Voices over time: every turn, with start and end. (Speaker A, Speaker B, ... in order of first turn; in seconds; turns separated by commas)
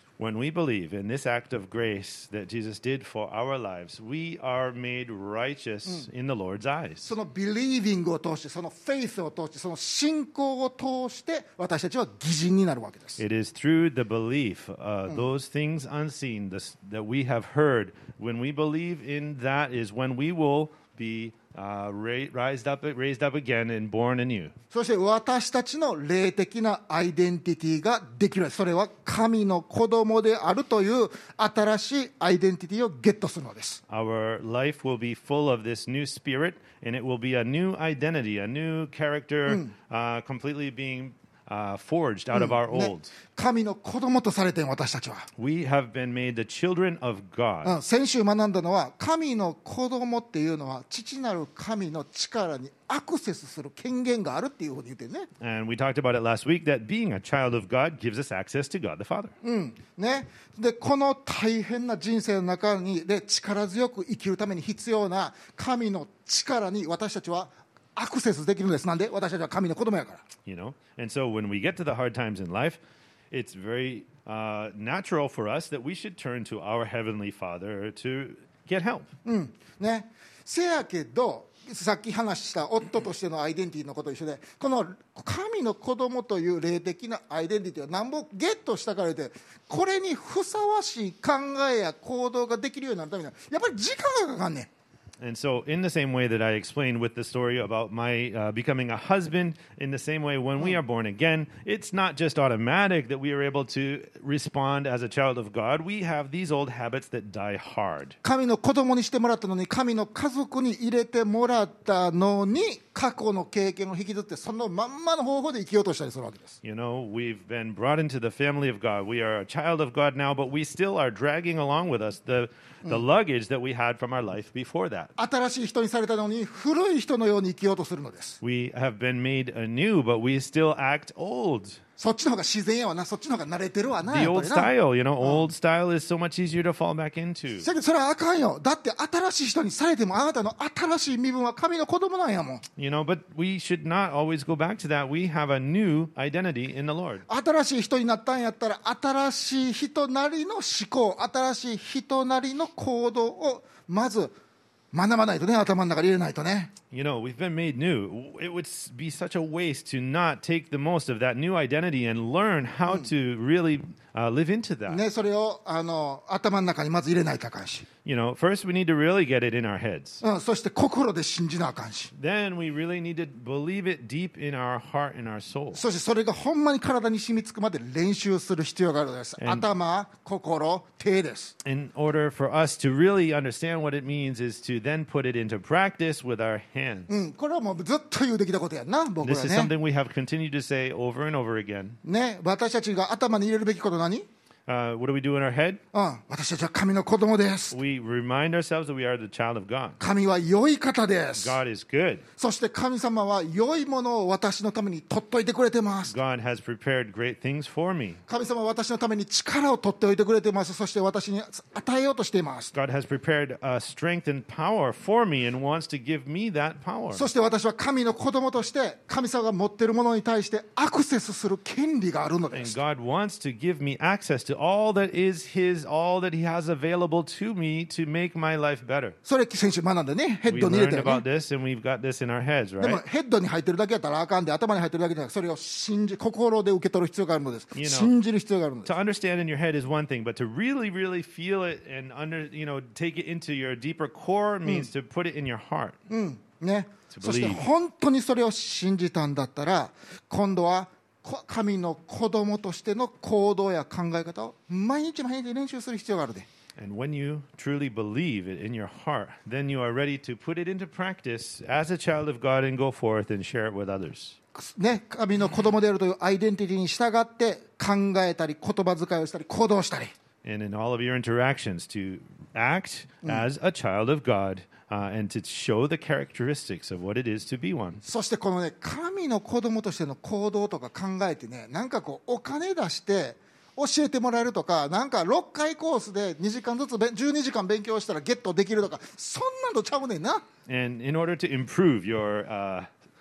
Speaker A: 0.2-7.1, Speaker B: 7.0-13.2, Speaker A: 13.2-24.5, Speaker B: 24.7-33.8, Speaker A: 33.9-43.1, Speaker B: 42.3-45.3, Speaker A: 45.4-47.8, Speaker B: 47.6-55.3, Speaker A: 55.4-59.3, Speaker B: 59.4-70.2, Speaker A: 70.4-72.8, Speaker A: 73.3-79.1, Speaker B: 79.2-94.7, Speaker A: 95.2-108.2, Speaker B: 108.2-116.6, Speaker A: 116.6-125.1, Speaker B: 125.2-128.4, Speaker A: 128.4-131.8, Speaker B: 132.0-135.5, Speaker A: 134.1-137.7, Speaker B: 137.6-142.6, Speaker A: 142.8-147.2, Speaker B: 147.3-154.3, Speaker B: 154.9-156.7, Speaker A: 156.9-165.0, Speaker B: 164.9-167.8, Speaker A: 168.0-170.2, Speaker B: 170.2-172.1, Speaker A: 172.1-175.8, Speaker B: 175.7-181.5, Speaker A: 179.4-179.7, Speaker A: 181.6-187.1, Speaker B: 187.1-189.7, Speaker A: 189.2-192.0, Speaker B: 192.0-194.3, Speaker A: 194.7-195.8, Speaker B: 195.9-197.8, Speaker A: 197.7-200.0, Speaker B: 200.0-201.6, Speaker A: 201.3-202.2, Speaker B: 202.4-206.1, Speaker A: 206.1-208.2, Speaker B: 208.3-212.7, Speaker A: 212.7-217.3, Speaker B: 217.1-222.8, Speaker A: 222.5-229.2, Speaker B: 229.2-231.2, Speaker A: 230.5-233.0, Speaker B: 232.8-238.9, Speaker A: 237.7-238.1, Speaker A: 238.8-246.0, Speaker B: 246.1-256.5, Speaker A: 247.1-247.6, Speaker A: 256.8-264.4, Speaker B: 264.5-270.1, Speaker A: 270.4-278.0, Speaker B: 278.0-290.4, Speaker A: 290.7-292.9